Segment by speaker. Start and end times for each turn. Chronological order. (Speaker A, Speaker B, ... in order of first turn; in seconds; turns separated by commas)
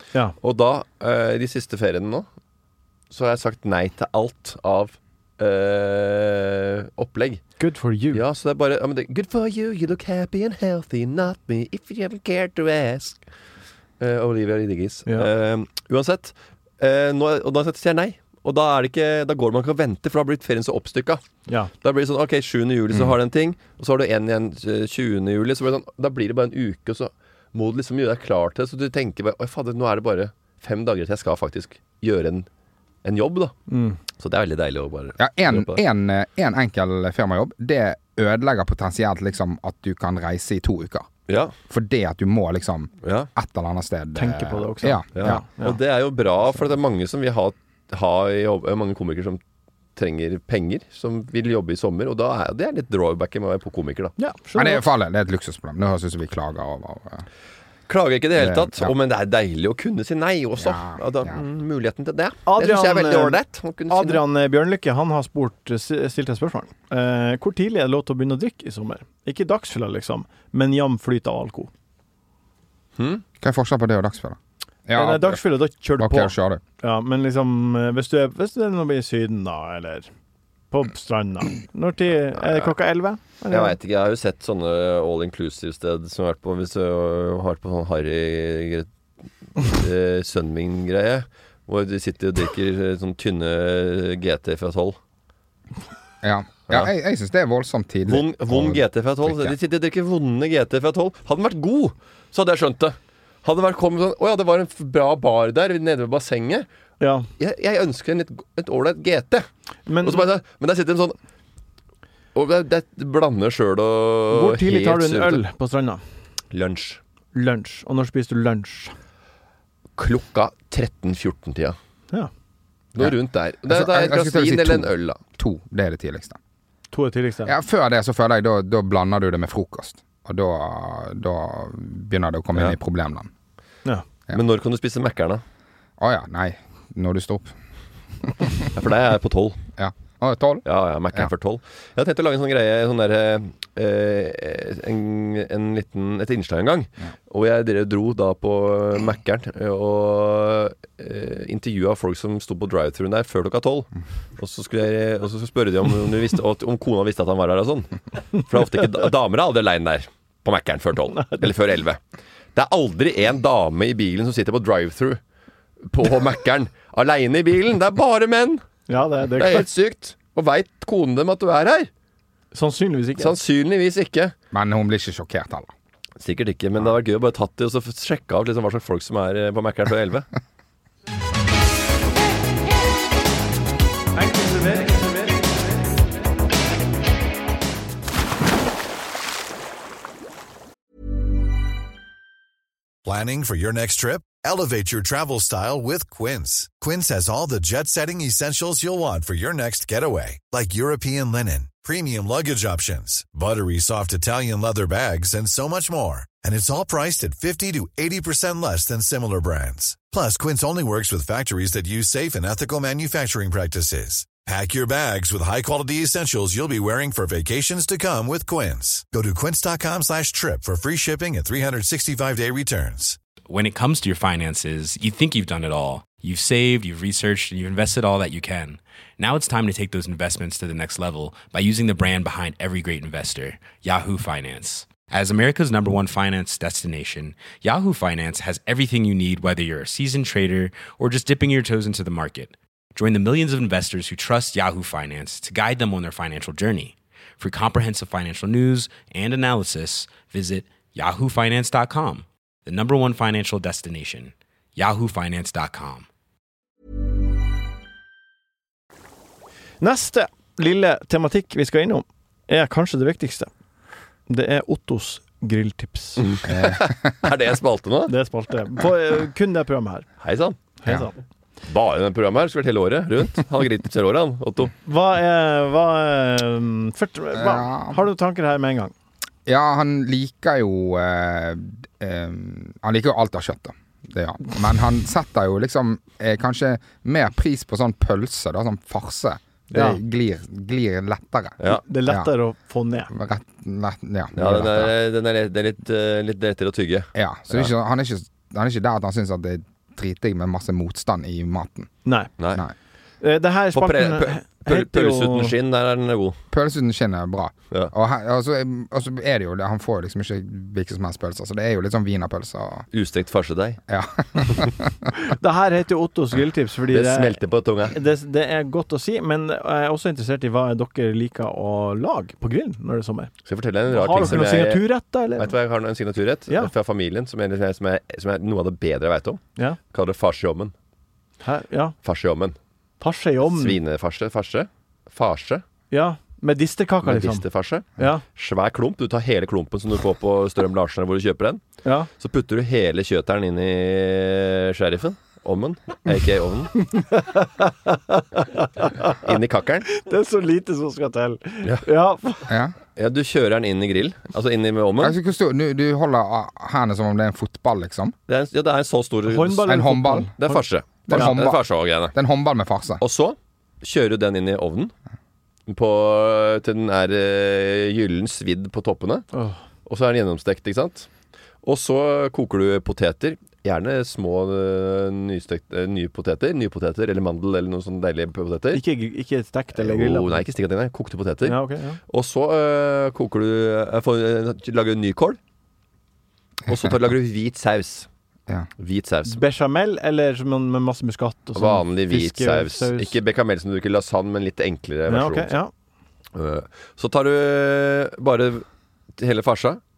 Speaker A: 0.4-2.3, Speaker A: 3.1-7.4, Speaker B: 7.6-8.2, Speaker A: 8.1-13.2, Speaker A: 14.0-21.2, Speaker A: 21.8-32.5, Speaker A: 33.0-33.5, Speaker B: 33.7-34.0, Speaker A: 34.2-35.8, Speaker C: 35.2-41.1, Speaker A: 41.3-41.5, Speaker C: 41.7-45.4, Speaker A: 43.0-43.3, Speaker B: 44.1-45.8, Speaker A: 45.1-49.4, Speaker A: 50.0-54.1, Speaker B: 54.2-54.9, Speaker C: 54.5-57.3, Speaker A: 57.9-64.2, Speaker C: 58.4-58.9, Speaker C: 60.6-61.4, Speaker B: 62.5-63.4, Speaker B: 63.9-71.7, Speaker A: 73.0-73.2, Speaker C: 73.4-75.4, Speaker B: 74.9-80.1, Speaker C: 76.0-76.6, Speaker B: 80.7-83.8, Speaker A: 83.5-88.9, Speaker A: 89.6-95.0, Speaker C: 96.2-99.5, Speaker A: 98.1-106.7, Speaker B: 107.0-107.3, Speaker A: 107.4-109.5, Speaker B: 109.9-110.3, Speaker A: 110.0-111.2, Speaker A: 112.3-115.4, Speaker B: 114.3-116.0, Speaker A: 116.5-117.0, Speaker B: 117.3-119.0, Speaker A: 120.0-121.8, Speaker A: 123.0-125.2, Speaker C: 123.7-126.4, Speaker B: 126.9-127.5, Speaker C: 127.5-133.3, Speaker A: 134.3-135.4, Speaker C: 136.0-137.6, Speaker C: 138.3-138.6, Speaker A: 138.7-139.6, Speaker C: 139.8-141.3, Speaker A: 140.6-162.0, Speaker A: 162.6-165.2, Speaker A: 165.9-168.6, Speaker B: 168.9-169.7, Speaker A: 169.4-171.9, Speaker B: 172.5-173.4, Speaker A: 173.2-174.3, Speaker C: 174.5-175.7, Speaker A: 176.2-180.3, Speaker B: 184.2-185.6, Speaker D: 193.1-223.2, Speaker E: 223.5-256.1, Speaker B: 259.8-263.5, Speaker B: 264.3-266.3, Speaker A: 266.2-268.1, Speaker C: 266.5-267.2, Speaker B: 268.1-270.1, Speaker A: 270.2-270.6, Speaker B: 270.8-271.1, Speaker A: 271.7-274.7, Speaker B: 274.9-278.9, Speaker C: 277.3-278.0, Speaker C: 279.5-292.3, Speaker B: 289.7-290.0, Speaker B: 291.7-293.1, Speaker C: 293.1-294.9, Speaker A: 294.4-297.7, Speaker C: 297.1-301.9, Speaker B: 302.1-302.3, Speaker A: 302.4-302.6, Speaker B: 303.2-305.5, Speaker A: 303.7-306.4, Speaker C: 306.5-312.9, Speaker A: 312.9-313.8, Speaker C: 313.9-314.9, Speaker B: 315.1-317.4, Speaker A: 316.9-317.9, Speaker B: 317.9-323.3, Speaker A: 323.5-324.8, Speaker B: 323.9-325.5, Speaker A: 325.4-330.7, Speaker B: 331.4-332.0, Speaker A: 332.0-332.6, Speaker B: 333.0-333.8, Speaker A: 333.5-335.6, Speaker B: 335.9-337.4, Speaker A: 337.0-341.6, Speaker B: 338.0-338.2, Speaker B: 341.8-342.1, Speaker A: 342.2-346.8, Speaker B: 346.9-349.2, Speaker A: 349.2-349.9, Speaker B: 349.9-352.5, Speaker C: 352.5-352.8, Speaker A: 353.0-355.2, Speaker C: 355.0-358.1, Speaker A: 358.3-359.8, Speaker B: 359.3-360.6, Speaker C: 359.7-360.3, Speaker A: 360.4-362.2, Speaker C: 361.1-363.0, Speaker A: 363.0-364.9, Speaker A: 365.7-369.3, Speaker B: 369.3-369.6, Speaker A: 369.9-371.1, Speaker A: 371.6-378.8, Speaker B: 378.7-380.4, Speaker A: 379.8-385.4, Speaker B: 381.4-382.0, Speaker A: 386.7-388.1, Speaker A: 388.8-389.4, Speaker B: 389.3-393.1, Speaker A: 391.6-395.5, Speaker B: 395.1-395.7, Speaker A: 396.4-399.8